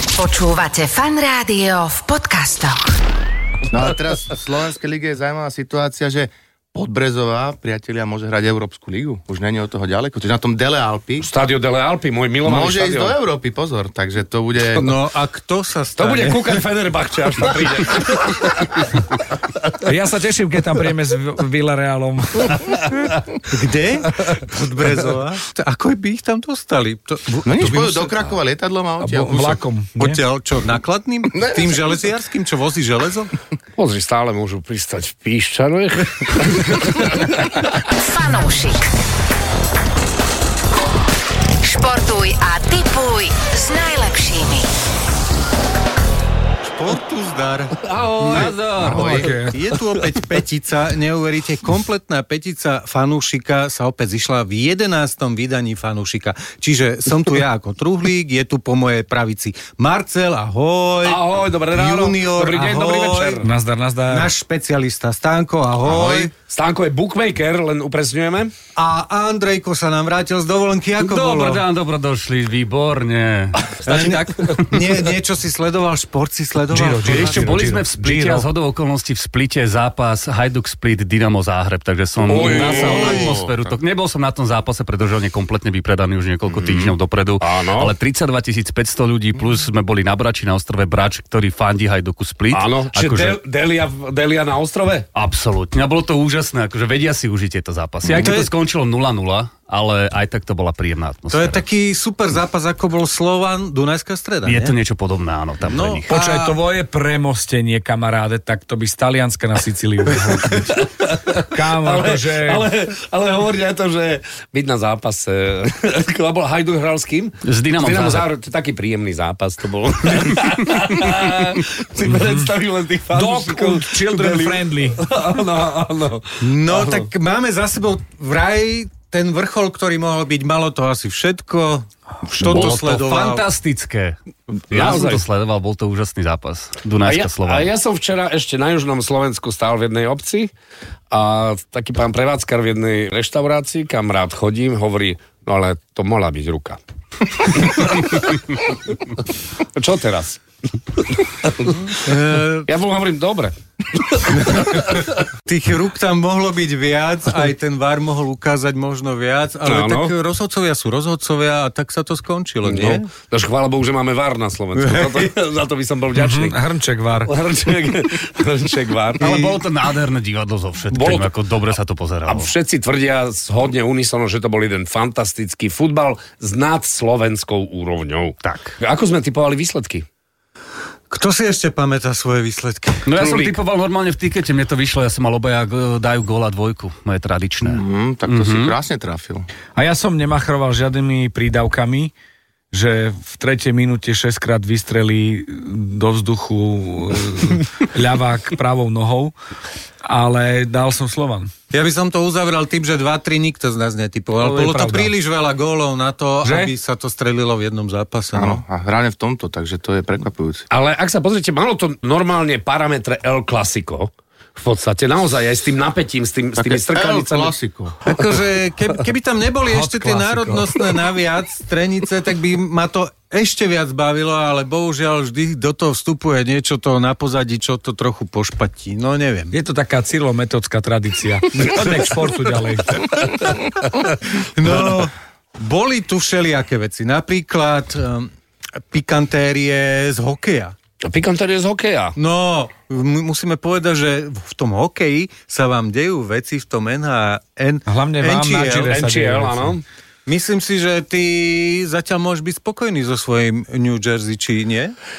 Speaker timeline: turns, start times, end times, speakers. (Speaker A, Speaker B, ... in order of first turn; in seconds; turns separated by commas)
Speaker A: 0.2-2.9, Speaker B: 3.7-11.3, Speaker C: 11.2-13.2, Speaker B: 12.4-14.8, Speaker D: 14.8-16.6, Speaker C: 14.8-15.0, Speaker C: 15.9-18.9, Speaker E: 19.9-22.8, Speaker D: 23.5-28.3, Speaker C: 24.2-24.9, Speaker B: 27.4-29.6, Speaker E: 29.0-30.2, Speaker D: 30.0-33.3, Speaker B: 31.4-31.8, Speaker C: 33.8-37.9, Speaker A: 38.0-38.8, Speaker A: 41.6-44.7, Speaker D: 46.6-47.8, Speaker C: 47.8-50.3, Speaker F: 48.2-49.1, Speaker B: 48.8-49.4, Speaker E: 48.9-49.5, Speaker D: 49.5-63.5, Speaker C: 61.0-63.5, Speaker E: 63.4-64.3, Speaker D: 64.1-66.3, Speaker B: 65.8-66.3, Speaker C: 66.3-68.5, Speaker D: 68.8-71.6, Speaker F: 71.0-75.0, Speaker C: 73.6-74.7, Speaker D: 73.9-77.7, Speaker E: 76.7-78.5, Speaker F: 77.0-93.4, Speaker C: 82.2-83.4, Speaker D: 82.4-83.3, Speaker B: 83.1-83.6, Speaker C: 86.5-88.0, Speaker C: 92.5-95.1, Speaker F: 95.2-101.6, Speaker C: 98.0-98.3, Speaker D: 98.2-98.5, Speaker D: 101.3-104.8, Speaker F: 104.4-106.1, Speaker D: 105.6-106.6, Speaker E: 106.1-110.8, Speaker C: 110.7-127.1, Speaker E: 111.5-112.7, Speaker F: 117.5-118.3, Speaker E: 123.1-125.0, Speaker D: 126.4-133.5, Speaker C: 132.4-132.9, Speaker F: 132.4-134.2, Speaker C: 134.7-135.2, Speaker F: 134.7-137.7, Speaker C: 137.0-140.5, Speaker C: 141.1-146.8, Speaker C: 147.3-149.0, Speaker C: 149.8-150.4, Speaker C: 151.0-155.2, Speaker D: 151.9-152.7, Speaker D: 155.5-163.1, Speaker C: 159.6-160.2, Speaker C: 162.6-166.6, Speaker D: 164.8-165.3, Speaker E: 166.2-167.3, Speaker C: 167.2-169.3, Speaker D: 169.2-169.6, Speaker F: 169.2-172.5, Speaker C: 170.9-171.3, Speaker C: 172.2-180.1, Speaker F: 178.4-178.7, Speaker D: 181.1-183.1, Speaker F: 183.1-188.8, Speaker C: 183.1-183.6, Speaker B: 187.6-189.4, Speaker E: 189.8-192.1, Speaker E: 192.7-199.3, Speaker E: 200.0-201.5, Speaker D: 201.7-208.6, Speaker E: 204.4-205.1, Speaker E: 206.4-206.7, Speaker B: 208.3-210.7, Speaker C: 210.7-217.5, Speaker B: 216.6-217.9, Speaker D: 218.1-229.6, Speaker C: 218.2-218.5, Speaker E: 219.6-220.8, Speaker E: 229.5-233.2, Speaker D: 234.4-238.3, Speaker D: 238.9-240.8, Speaker C: 241.0-242.2, Speaker D: 242.2-248.9, Speaker E: 247.9-249.8, Speaker C: 248.8-249.8, Speaker D: 250.3-254.9